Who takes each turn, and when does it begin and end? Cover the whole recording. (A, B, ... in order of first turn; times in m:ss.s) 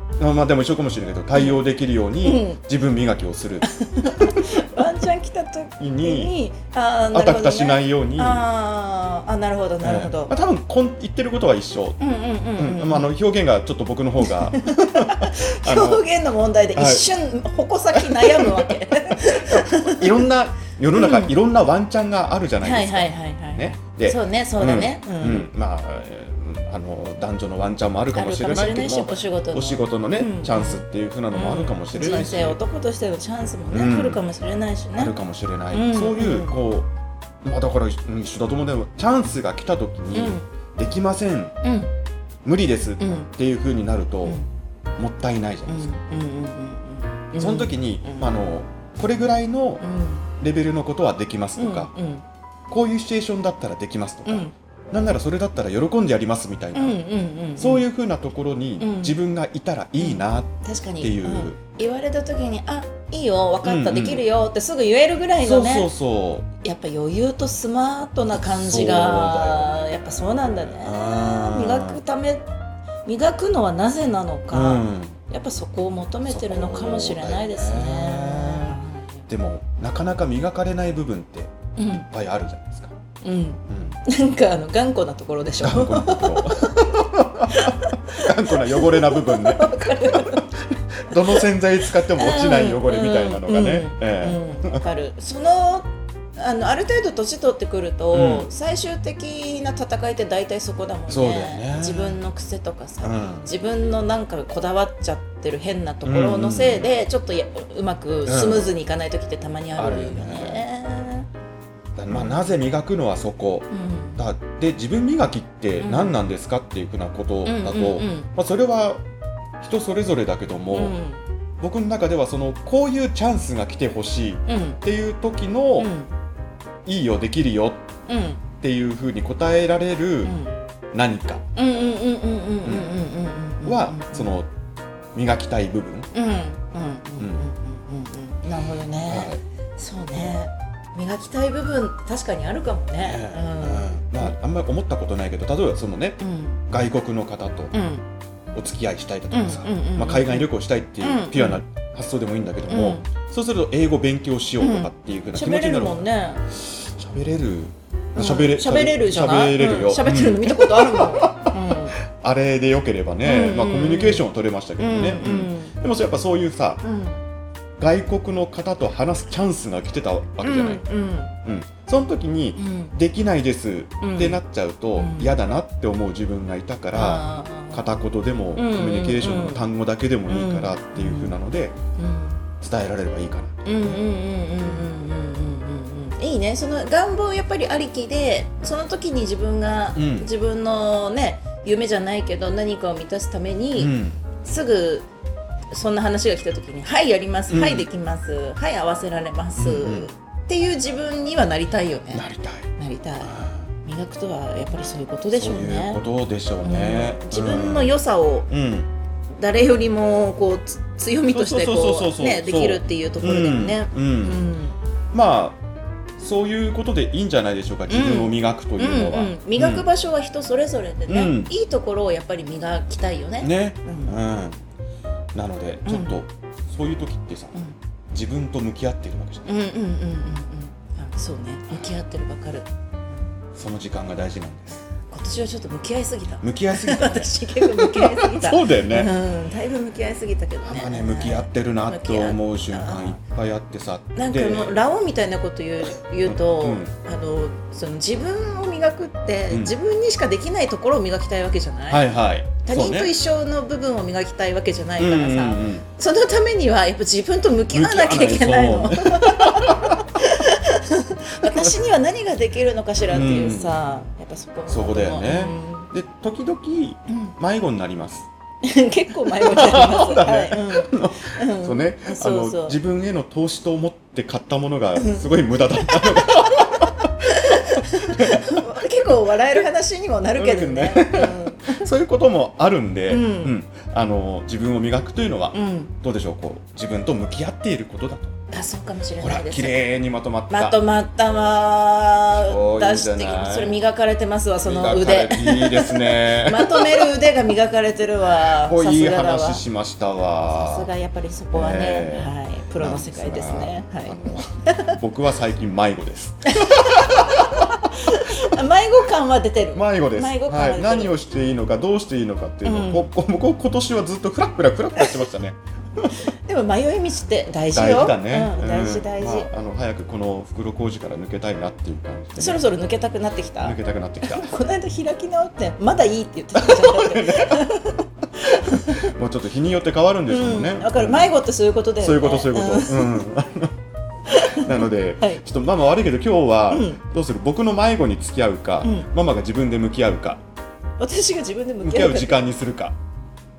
0:00.2-0:04.4 A
0:01.3-0:01.6 B
0:02.2-0:02.6 B
0:03.7-0:10.3 B
0:05.8-0:06.4 A
0:07.1-0:08.4 A
0:09.8-0:12.0 A
0:12.0-0:13.1 B
0:12.6-0:16.0 A
0:14.2-0:20.1 B
0:16.7-0:17.0 A
0:17.9-0:32.6 A
0:20.9-0:21.3 B
0:22.6-0:25.5 B
0:28.1-0:35.1 B
0:33.7-0:34.2 A
0:35.0-0:36.9 A
0:35.7-0:36.6 B
0:37.4-0:41.5 A
0:40.1-0:40.4 B
0:41.6-0:41.9 B
0:42.4-0:44.4 A
0:43.0-0:43.3 B
0:45.0-0:45.9 A
0:45.7-0:48.3 B
0:47.4-0:49.8 A
0:49.8-0:50.3 B
0:50.4-0:51.9 A
0:51.6-0:52.2 B
0:52.7-0:57.0 A
0:54.2-0:54.5 B
0:56.7-0:57.8 B
0:57.6-1:01.6 A
0:58.8-0:59.2 B
1:00.0-1:05.9 B
1:03.6-1:04.2 A
1:05.4-1:06.5 A
1:06.6-1:12.5 B
1:08.3-1:12.0 A
1:13.0-1:19.2 B
1:14.5-1:15.2 A
1:16.2-1:22.9 A
1:21.8-1:22.1 B
1:23.2-1:30.5 B
1:23.7-1:24.0 A
1:25.6-1:34.8 A
1:31.1-1:51.3 B
1:38.1-1:38.5 A
1:41.1-1:42.2 A
1:43.0-1:43.5 A
1:46.0-1:46.9 A
1:48.2-1:48.7 A
1:49.8-1:50.6 A
1:52.0-1:59.0 A
1:52.1-1:52.5 B
1:53.7-1:54.2 B
1:55.8-1:56.2 B
1:57.4-1:58.3 B
1:59.6-2:01.0 A
2:00.7-2:01.2 B
2:01.6-2:05.9 A
2:04.5-2:04.8 B
2:05.8-2:06.1 B
2:06.8-2:07.8 A
2:08.1-2:08.4 B
2:08.6-2:10.4 A
2:10.2-2:10.6 B
2:10.9-2:11.4 A
2:11.5-2:14.3 B
2:12.6-2:13.0 A
2:13.6-2:14.5 A
2:15.1-2:16.1 A
2:16.1-2:24.4 B
2:17.2-2:17.4 A
2:19.0-2:19.4 A
2:23.0-2:27.7 A
2:26.2-2:26.6 B
2:27.7-2:28.0 B
2:28.5-2:46.8 A
2:29.3-2:31.6 B
2:32.7-2:33.0 B
2:34.6-2:36.4 B
2:38.1-2:41.9 B
2:43.2-2:44.2 B
2:44.8-2:45.7 B
2:46.8-2:47.2 B
2:47.8-2:50.8 A
2:50.4-2:51.3 B
2:51.4-3:01.8 A
2:52.6-2:52.9 B
2:54.0-2:54.4 B
2:55.0-2:55.4 B
2:56.9-2:57.9 B
2:58.5-2:59.6 B
3:00.3-3:01.4 B
3:02.0-3:02.4 B
3:02.6-3:04.0 A
3:03.6-3:15.1 B
3:09.9-3:10.3 A
3:13.8-3:14.2 A
3:15.7-3:26.0 B
3:17.5-3:17.9 A
3:19.6-3:20.1 A
3:22.1-3:22.7 A
3:23.2-3:23.6 A
3:25.3-3:28.0 A
3:26.6-3:28.5 B
3:28.5-3:28.9 A
3:29.4-3:34.8 B
3:31.3-3:34.4 A
3:35.1-3:35.6 A
3:36.2-3:39.9 A
3:37.9-3:44.2 B
3:41.1-3:41.5 A
3:43.4-3:44.6 A
3:45.3-3:47.6 A
3:45.8-3:46.2 B
3:48.1-3:49.5 A
3:49.4-3:52.7 B
3:53.5-3:54.8 A
3:55.1-4:03.2 B
3:56.4-3:59.1 A
4:00.6-4:04.8 A
4:04.2-4:12.1 B
4:06.2-4:06.9 A
4:11.9-4:13.1 A
4:12.6-4:25.9 B
4:15.0-4:15.8 A
4:17.7-4:20.1 A
4:21.4-4:21.7 A
4:23.1-4:23.8 A
4:24.7-4:28.3 A
4:27.1-4:27.3 B
4:28.6-4:32.8 B
4:29.2-4:38.7 A
4:35.0-4:35.3 B
4:35.9-4:41.9 B
4:40.4-4:48.3 A
4:43.1-4:43.5 B
4:45.5-4:45.9 B
4:48.5-4:49.8 B
4:49.2-4:50.8 A
4:50.5-4:59.6 B
4:52.3-4:53.8 A
4:54.6-4:57.2 A
4:58.4-5:00.9 A
5:00.5-5:05.0 B
5:01.5-5:07.6 A
5:06.5-5:11.1 B
5:09.7-5:16.1 A
5:12.6-5:13.1 B
5:15.0-5:15.2 B
5:16.3-5:19.5 B
5:17.7-5:22.6 A
5:22.4-5:29.1 B
5:23.6-5:24.5 A
5:26.5-5:27.7 A
5:28.5-5:31.4 A
5:30.3-5:33.2 B
5:32.0-5:33.7 A
5:34.3-5:35.4 B
5:34.6-5:40.4 A
5:36.7-5:37.0 B
5:38.8-5:39.1 B
5:41.0-5:42.4 B
5:41.8-5:42.9 A